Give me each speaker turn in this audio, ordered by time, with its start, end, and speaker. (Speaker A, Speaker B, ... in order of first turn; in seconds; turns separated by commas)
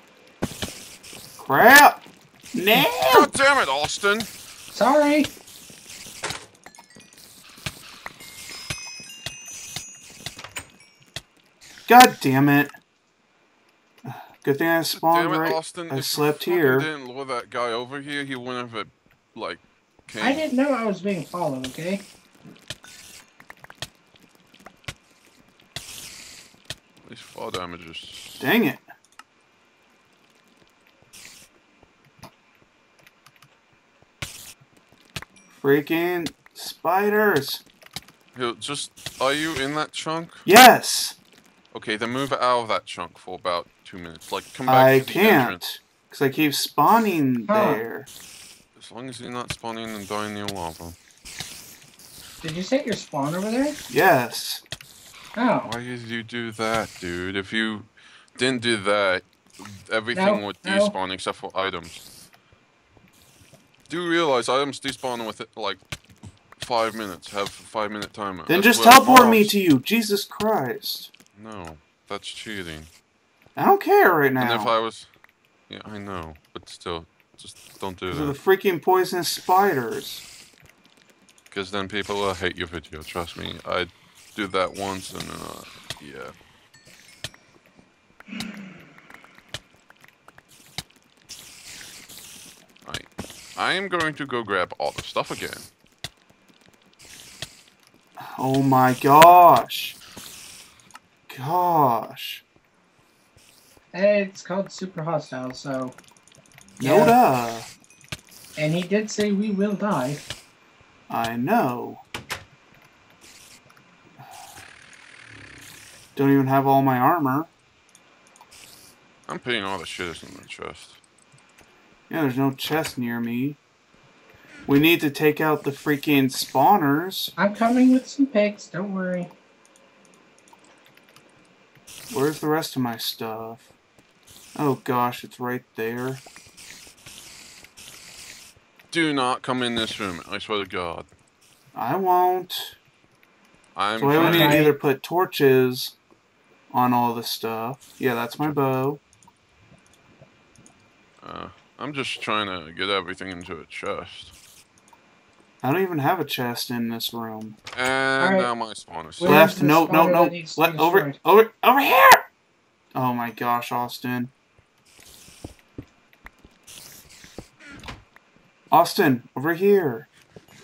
Speaker A: 1.4-2.0, Speaker A: 2.5-3.3, Speaker B: 3.0-4.3, Speaker C: 4.7-5.3, Speaker A: 11.9-12.7, Speaker A: 14.1-16.9, Speaker B: 14.9-20.5, Speaker C: 20.2-22.0, Speaker B: 27.0-28.5, Speaker A: 28.4-28.8, Speaker A: 35.5-37.6, Speaker B: 38.3-40.5, Speaker A: 40.4-41.2, Speaker B: 41.7-45.6, Speaker A: 44.6-48.1, Speaker C: 47.5-47.8, Speaker B: 48.8-51.0, Speaker C: 52.4-53.8, Speaker A: 53.9-54.6, Speaker C: 55.4-55.7, Speaker B: 55.6-62.0, Speaker C: 60.1-60.9, Speaker B: 63.9-65.8, Speaker B: 66.6-69.5, Speaker A: 68.5-71.1, Speaker B: 71.3-72.9, Speaker A: 73.5-74.7, Speaker B: 74.4-75.1, Speaker B: 75.7-78.3, Speaker A: 78.1-80.2, Speaker B: 81.5-86.3, Speaker B: 92.8-95.7, Speaker A: 98.2-100.0, Speaker A: 101.3-102.4, Speaker C: 103.9-106.0, Speaker C: 106.8-107.2, Speaker A: 106.8-107.7, Speaker C: 108.6-110.2, Speaker A: 111.1-112.0, Speaker A: 116.2-117.5, Speaker B: 119.3-121.0, Speaker A: 122.1-123.6, Speaker A: 124.7-127.3, Speaker C: 127.4-129.3, Speaker A: 132.1-133.7, Speaker A: 134.5-136.2, Speaker B: 138.9-141.1, Speaker A: 141.7-142.8, Speaker B: 143.7-144.6, Speaker A: 144.0-145.9, Speaker C: 144.1-144.7, Speaker A: 146.7-149.0, Speaker B: 151.2-154.3, Speaker A: 155.6-157.6, Speaker B: 157.7-159.4, Speaker C: 158.2-158.5, Speaker C: 159.2-161.2, Speaker A: 159.2-162.2, Speaker A: 162.9-164.3, Speaker A: 168.7-170.1